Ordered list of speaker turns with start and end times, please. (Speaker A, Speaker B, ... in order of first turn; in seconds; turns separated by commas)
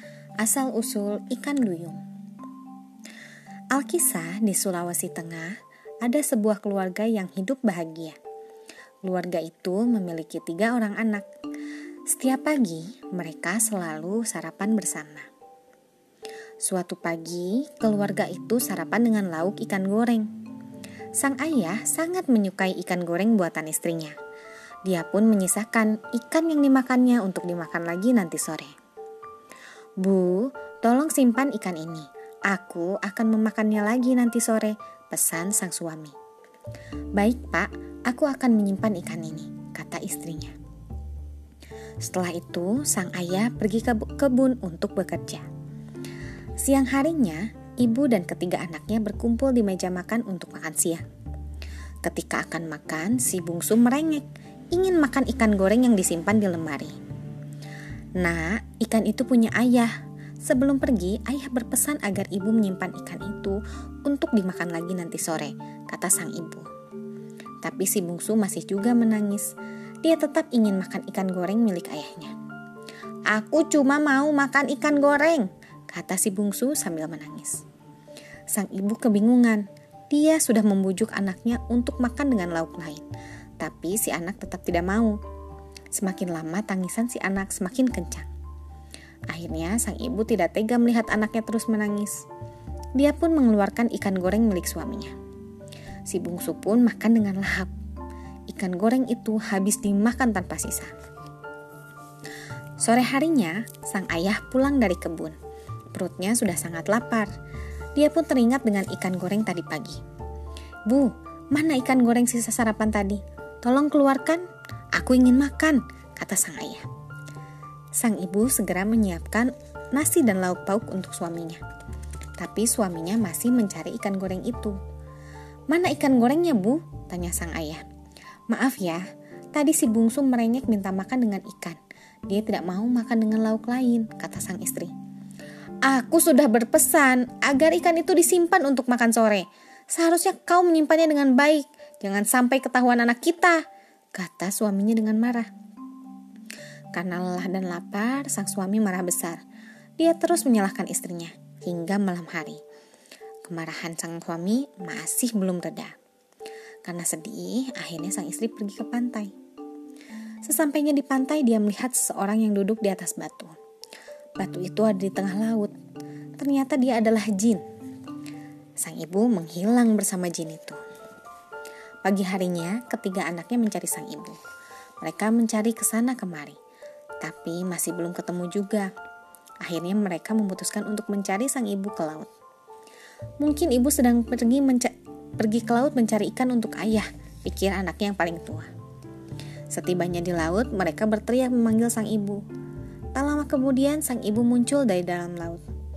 Speaker A: 0.4-2.0, Speaker A: 3.7-8.2, Speaker A: 9.0-11.3, Speaker A: 12.1-15.3, Speaker A: 16.6-20.3, Speaker A: 21.2-24.1, Speaker A: 24.8-28.7, Speaker A: 30.0-36.1, Speaker A: 37.1-40.5, Speaker A: 42.0-45.4, Speaker A: 46.6-51.0, Speaker A: 52.0-57.0, Speaker A: 58.2-59.9, Speaker A: 60.4-66.7, Speaker A: 67.6-72.3, Speaker A: 73.3-77.6, Speaker A: 78.5-83.0, Speaker A: 83.6-85.2, Speaker A: 85.9-88.3, Speaker A: 89.3-92.2, Speaker A: 93.0-95.1, Speaker A: 96.1-97.7, Speaker A: 98.5-100.9, Speaker A: 102.8-105.4, Speaker A: 105.9-107.3, Speaker A: 108.0-110.0, Speaker A: 110.9-116.8, Speaker A: 118.0-121.6, Speaker A: 122.4-124.8, Speaker A: 125.7-127.8, Speaker A: 128.5-134.9, Speaker A: 135.8-143.6, Speaker A: 144.1-145.5, Speaker A: 146.9-149.4, Speaker A: 150.0-152.6, Speaker A: 153.4-155.9, Speaker A: 156.8-159.3, Speaker A: 160.4-163.6, Speaker A: 164.4-165.7, Speaker A: 166.4-167.6, Speaker A: 168.8-170.8, Speaker A: 172.0-174.4, Speaker A: 175.0-176.6, Speaker A: 177.2-178.9, Speaker A: 179.6-182.3, Speaker A: 183.4-188.7, Speaker A: 189.7-192.4, Speaker A: 193.1-195.6